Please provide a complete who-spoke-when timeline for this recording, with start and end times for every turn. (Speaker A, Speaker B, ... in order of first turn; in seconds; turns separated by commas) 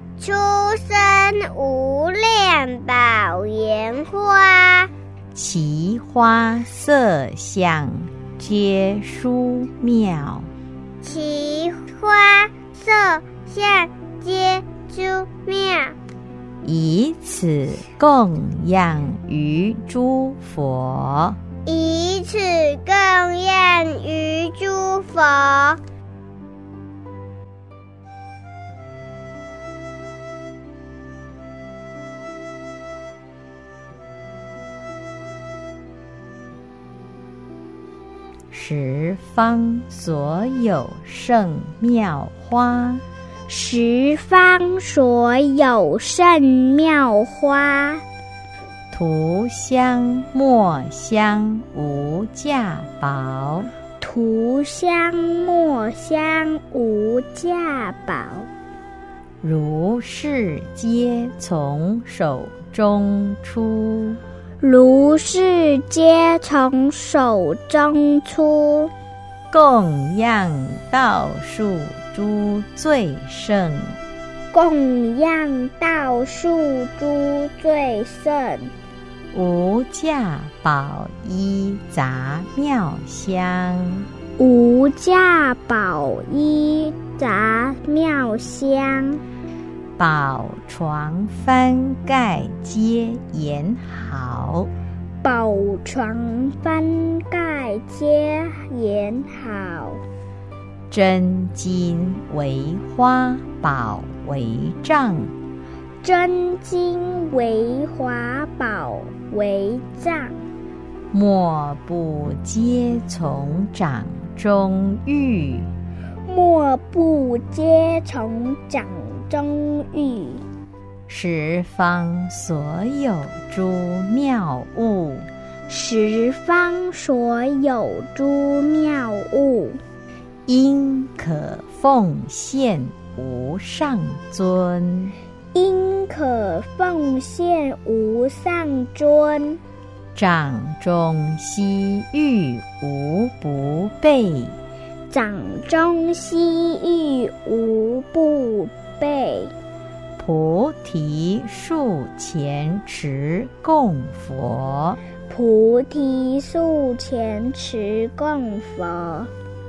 Speaker A: 0.2-4.9, Speaker B: 5.3-10.5, Speaker A: 11.0-15.9, Speaker B: 16.6-21.4, Speaker A: 21.6-25.8, Speaker B: 38.5-43.0, Speaker C: 43.5-48.0, Speaker B: 48.9-53.7, Speaker C: 54.0-58.5, Speaker B: 59.4-64.2, Speaker C: 64.6-68.9, Speaker B: 69.5-74.0, Speaker C: 74.5-78.7, Speaker B: 79.3-84.1, Speaker C: 84.4-89.2, Speaker B: 90.0-94.7, Speaker C: 95.2-100.0, Speaker B: 100.9-105.3, Speaker C: 106.0-110.4, Speaker B: 111.1-115.7, Speaker C: 116.2-120.4, Speaker B: 121.1-125.3, Speaker C: 125.7-129.8, Speaker B: 130.5-135.1, Speaker C: 135.5-139.6, Speaker B: 140.2-144.6, Speaker C: 145.1-149.5, Speaker B: 150.2-155.0, Speaker C: 155.3-159.3